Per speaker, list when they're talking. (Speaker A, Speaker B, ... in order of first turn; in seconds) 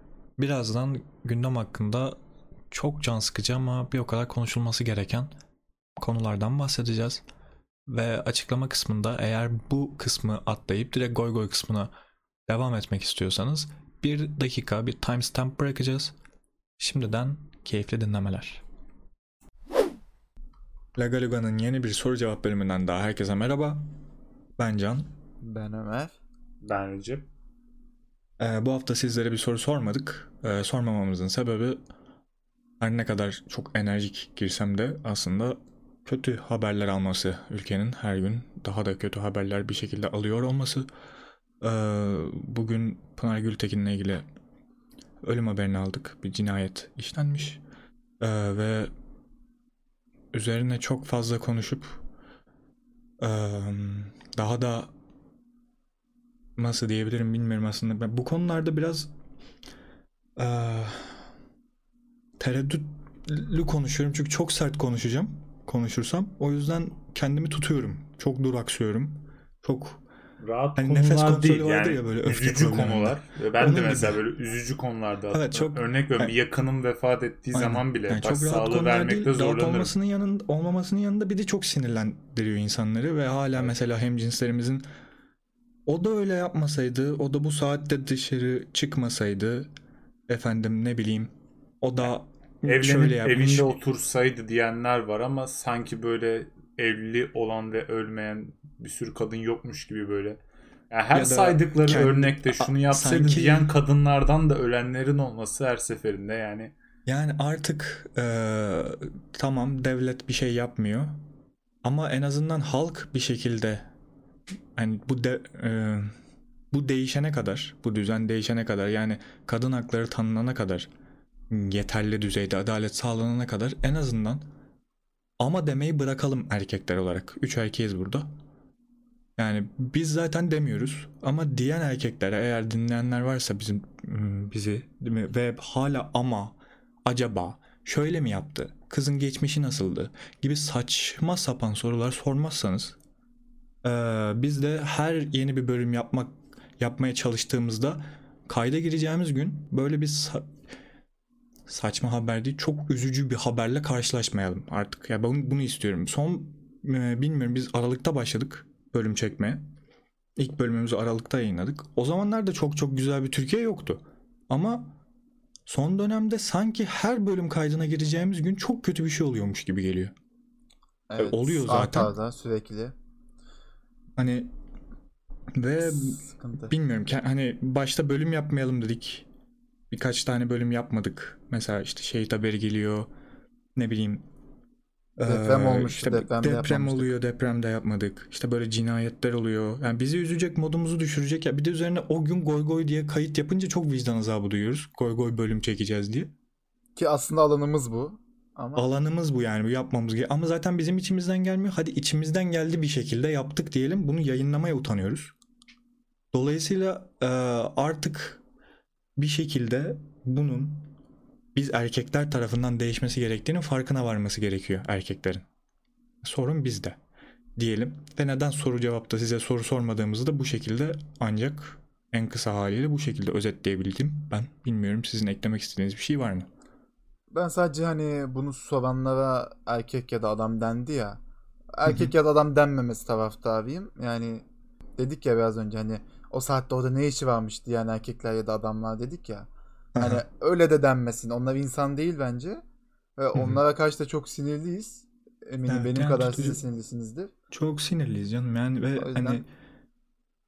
Speaker A: 0.4-2.2, 2.7-5.3, 6.0-7.2, 7.9-11.9, 12.5-16.1, 16.8-18.6, 21.0-23.9, 24.6-25.1, 28.4-31.8, 32.8-40.9, 41.6-44.3, 45.2-47.6, 48.2-48.9, 50.3-52.0, 53.2-54.9, 56.6-59.1, 60.4-61.3, 62.4-70.0, 70.8-74.2, 75.3-76.3, 77.5-84.8, 85.9-89.7, 90.3-93.7, 101.1-103.7, 107.1-111.2, 111.8-113.9, 114.8-116.1, 116.7-120.9, 121.5-124.5, 125.4-128.3, 129.4-143.0, 143.8-150.5, 151.7-159.6, 160.4-165.0, 165.7-170.1, 171.2-172.1, 174.2-174.5, 175.6-179.3, 179.9-183.1, 183.8-184.3, 185.2-196.3, 198.8-205.3, 206.3-208.4, 209.2-210.9, 211.5-215.5, 216.2-217.0, 217.6-226.5, 239.9-240.2, 243.3-243.6, 245.7-246.6, 247.5-249.5
Speaker B: 25.4-26.2, 171.1-172.9, 176.0-176.7, 185.2-187.2, 197.0-198.9, 227.3-231.2, 231.7-234.4, 235.0-242.6, 243.2-247.3, 249.0-249.4
Speaker C: 26.6-27.3, 70.4-79.9, 92.7-106.7